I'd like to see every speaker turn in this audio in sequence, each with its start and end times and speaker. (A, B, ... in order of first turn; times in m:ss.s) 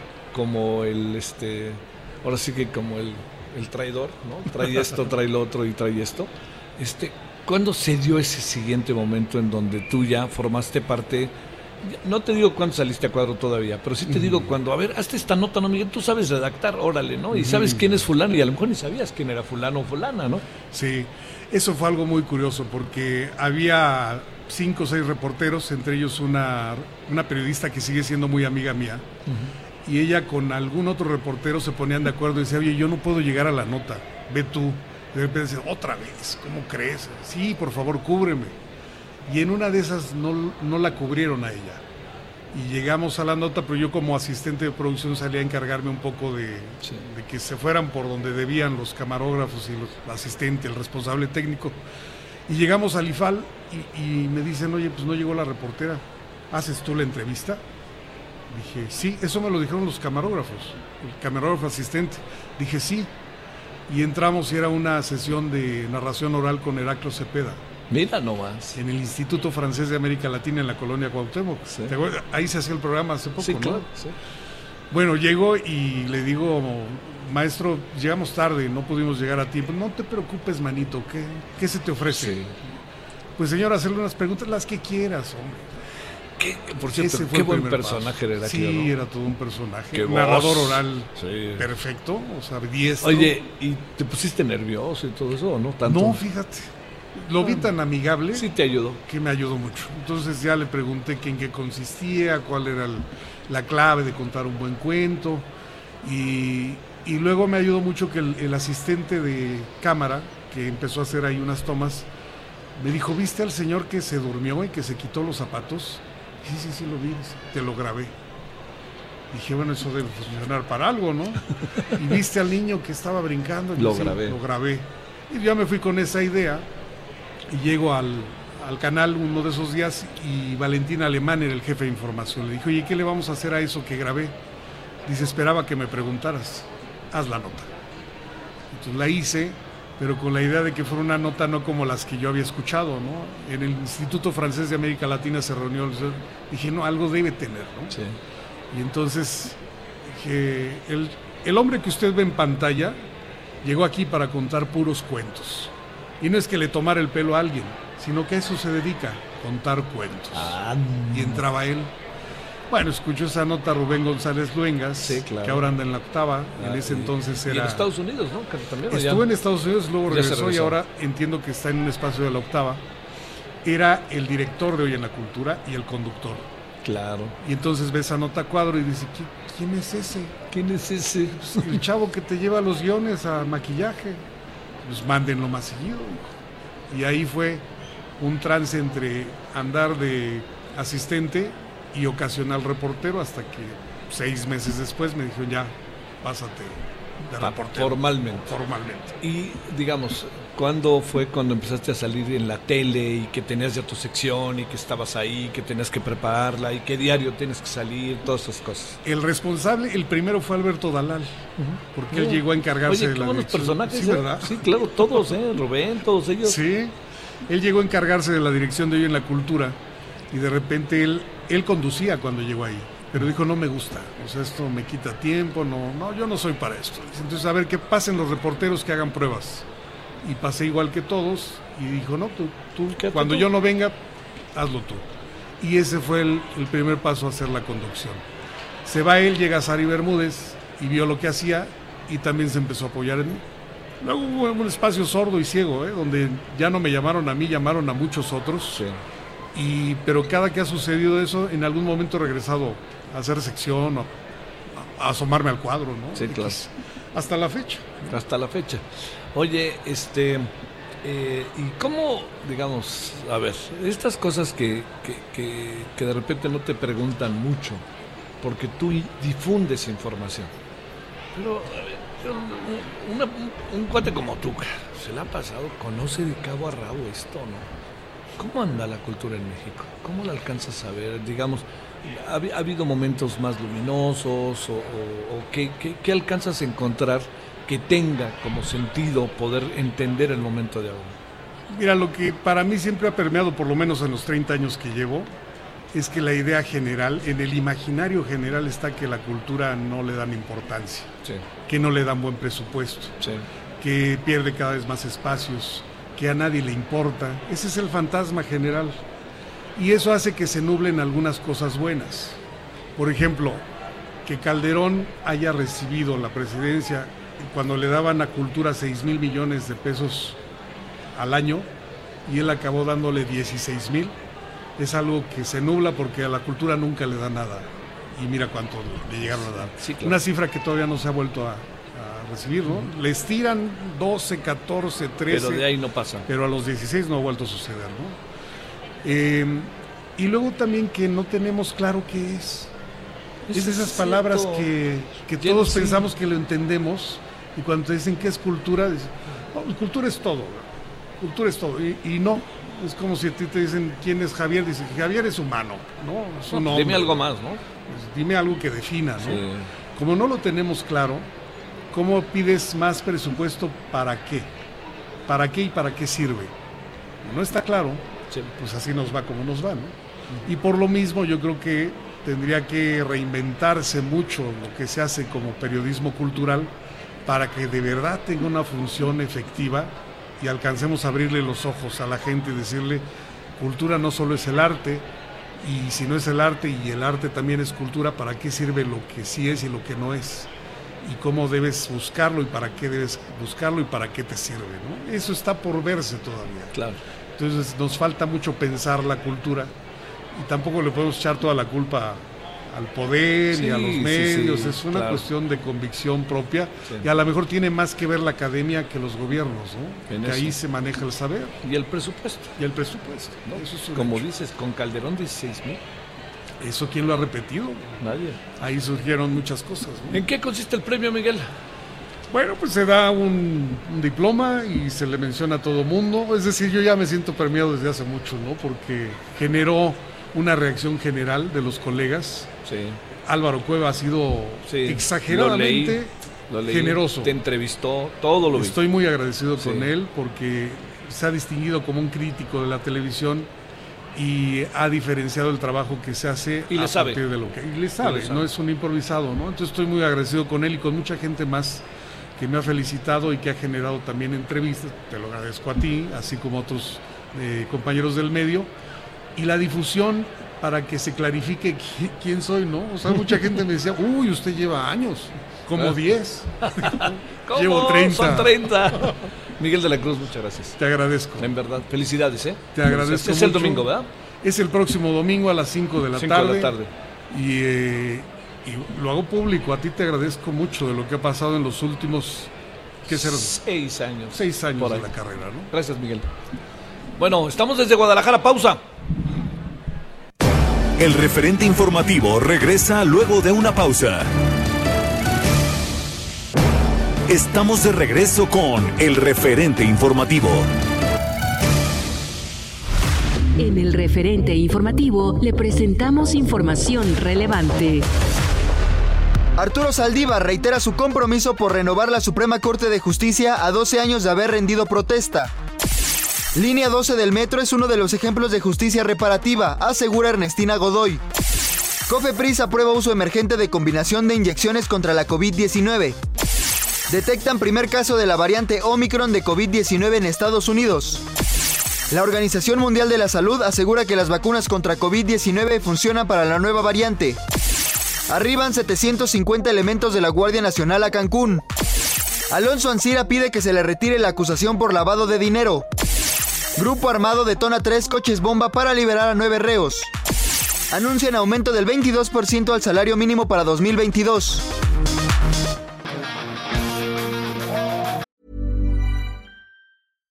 0:00.3-0:20.4 A
0:14.1-0:14.5 B
0:17.3-0:18.0 B
0:20.7-0:29.0 B
0:29.8-0:38.5 B
0:39.3-0:41.8 B
0:42.5-0:51.8 B
0:52.5-0:57.6 B
0:58.5-1:03.1 B
1:03.9-1:07.6 B
1:07.9-1:08.8 A
1:08.8-1:13.9 B
1:11.7-1:11.9 A
1:13.4-1:14.2 A
1:14.9-1:22.6 B
1:22.1-1:22.6 A
1:23.4-1:25.7 B
1:26.4-1:28.9 A
1:26.9-1:33.4 B
1:29.9-1:31.6 A
1:33.0-1:36.2 A
1:35.8-1:38.5 B
1:37.4-1:37.7 A
1:38.3-1:39.0 A
1:39.0-1:45.5 B
1:46.0-1:52.1 B
1:52.8-1:58.1 B
1:59.3-2:06.7 B
2:03.8-2:04.4 A
2:07.5-2:14.3 B
2:15.0-2:17.7 B
2:18.7-2:28.0 B
2:27.9-2:28.2 A
2:28.7-2:33.0 B
2:33.6-2:40.6 B
2:40.3-2:41.4 A
2:41.1-2:41.9 B
2:42.7-2:47.9 B
2:45.0-2:45.6 A
2:46.6-2:49.2 A
2:48.9-2:52.8 B
2:50.1-2:50.8 A
2:53.6-2:56.5 B
2:56.8-2:57.4 A
2:57.4-3:00.4 B
3:00.5-3:01.8 A
3:01.4-3:04.2 B
3:04.8-3:06.3 B
3:06.9-3:07.6 B
3:08.2-3:19.2 B
3:17.4-3:18.5 A
3:19.2-3:29.0 A
3:29.0-3:31.4 B
3:31.6-3:36.6 A
3:31.9-3:35.2 B
3:36.4-3:37.0 B
3:37.5-3:39.8 B
3:40.3-3:49.6 B
3:50.2-3:54.0 B
3:52.9-3:53.5 A
3:54.5-3:55.0 B
3:55.6-3:58.2 B
3:58.8-4:03.4 B
4:04.0-4:08.8 B
4:08.7-4:09.0 A
4:09.5-4:14.2 B
4:14.7-4:18.0 B
4:16.1-4:16.6 A
4:18.0-4:20.5 A
4:21.0-4:27.8 A
4:28.4-4:30.5 A
4:31.3-4:37.7 A
4:38.4-4:51.2 A
4:51.7-4:55.3 B
4:55.9-5:01.1 B
5:01.6-5:03.2 B
5:03.2-5:03.4 A
5:03.8-5:09.0 B
5:09.8-5:12.4 B
5:13.0-5:13.6 B
5:14.2-5:20.4 B
5:21.1-5:21.7 B
5:22.3-5:24.1 B
5:24.8-5:35.7 B
5:29.2-5:30.2 A
5:35.3-5:36.3 A
5:36.3-5:38.2 B
5:39.0-5:42.7 B
5:43.5-5:44.7 A
5:43.5-5:50.7 B
5:45.4-5:46.1 A
5:51.2-5:57.2 B
5:56.5-5:57.6 A
5:57.9-5:59.4 B
5:59.2-5:59.7 A
6:00.0-6:01.3 B
6:01.9-6:04.5 B
6:05.3-6:06.5 B
6:07.2-6:09.9 B
6:10.4-6:16.7 B
6:17.2-6:23.0 B
6:23.6-6:25.1 B
6:25.6-6:30.5 B
6:31.0-6:36.7 B
6:36.7-6:37.0 A
6:37.4-6:39.7 B
6:40.3-6:51.6 B
6:43.5-6:45.2 A
6:50.1-6:50.5 A
6:51.6-6:52.5 A
6:52.6-6:54.2 B
6:53.4-6:55.8 A
6:56.6-6:58.0 B
6:58.0-6:58.4 A
6:58.6-7:00.2 B
7:00.1-7:01.5 A
7:02.3-7:12.5 B
7:12.6-7:13.0 A
7:13.2-7:16.1 B
7:14.6-7:18.8 A
7:16.6-7:17.3 B
7:18.5-7:23.5 B
7:19.6-7:19.9 A
7:24.1-7:31.8 B
7:26.7-7:27.2 A
7:28.0-7:28.4 A
7:32.4-7:38.7 B
7:39.4-7:49.2 B
7:46.6-7:50.8 A
7:50.8-7:51.5 B
7:51.4-7:54.1 A
7:52.7-7:56.7 B
7:56.1-7:56.9 A
7:57.3-8:02.5 B
8:03.1-8:03.6 B
8:03.1-8:05.1 A
8:04.3-8:05.7 B
8:05.7-8:06.3 A
8:07.2-8:08.8 A
8:11.0-8:14.3 C
8:17.3-8:20.7 C
8:23.6-8:28.0 D
8:29.6-8:35.5 E
8:36.5-8:41.2 E
8:42.1-8:46.2 E
8:47.1-8:51.2 E
8:52.1-8:57.4 E
8:58.3-9:01.6 E
9:02.5-9:05.9 E
9:06.8-9:10.1 E
9:10.9-9:14.7 E